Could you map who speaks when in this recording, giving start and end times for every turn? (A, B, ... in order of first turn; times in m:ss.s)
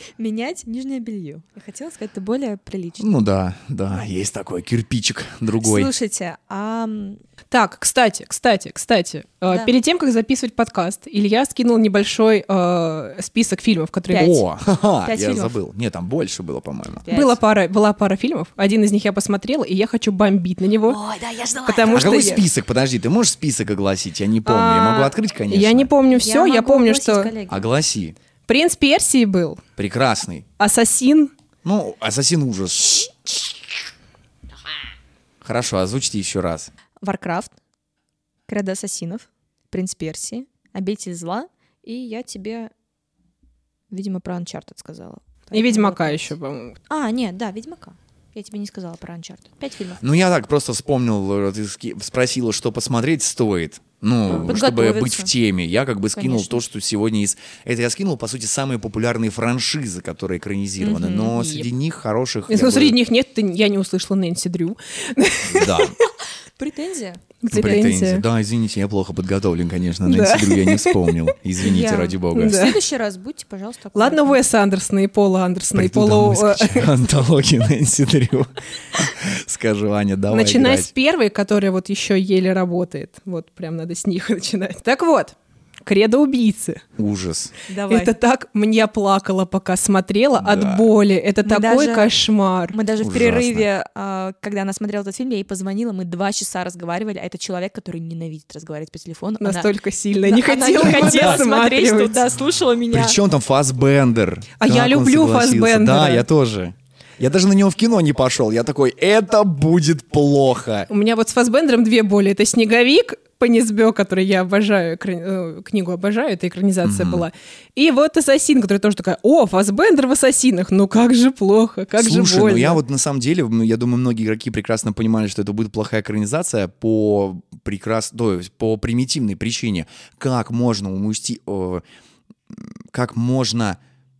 0:00.1-0:03.1 A
0:03.0-0:05.9 B
0:05.6-0:07.2 A
0:07.5-0:14.3 C
0:14.1-0:14.4 A
0:14.2-0:17.0 B
0:15.0-0:15.5 A
0:17.0-0:17.4 A
0:17.1-0:21.0 C
0:20.8-0:22.3 A
0:21.6-0:22.4 C
0:21.9-0:25.9 B
0:24.4-0:27.3 C
0:26.1-0:27.6 A
0:27.5-0:28.1 B
0:28.5-0:29.6 C
0:29.8-0:30.4 B
0:30.6-0:31.3 C
0:31.6-0:33.1 B
0:35.4-0:36.7 B
0:37.0-0:37.5 A
0:38.5-0:42.7 A
0:43.9-0:46.3 A
0:45.5-0:46.8 C
0:46.9-0:50.0 A
0:50.0-1:03.0 B
0:54.3-0:55.3 A
0:56.2-0:56.6 A
1:00.8-1:01.7 A
1:02.5-1:05.9 C
1:05.4-1:05.9 B
1:06.6-1:07.2 A
1:07.4-1:08.2 C
1:07.5-1:12.6 B
1:10.0-1:11.2 C
1:11.6-1:14.4 A
1:12.3-1:12.8 C
1:13.9-1:16.9 C
1:15.7-1:20.9 B
1:20.3-1:26.8 C
1:27.0-1:27.5 B
1:27.7-1:28.1 A
1:27.9-1:32.8 C
1:30.4-1:30.8 B
1:31.4-1:32.1 A
1:32.7-1:39.7 A
1:33.0-1:33.7 B
1:39.4-1:42.2 C
1:40.2-1:43.2 A
1:41.0-1:41.4 B
1:42.9-1:50.9 B
1:44.6-1:46.2 C
1:50.9-2:02.8 C
1:56.8-1:57.3 B
2:02.0-2:11.8 B
2:12.5-2:13.8 B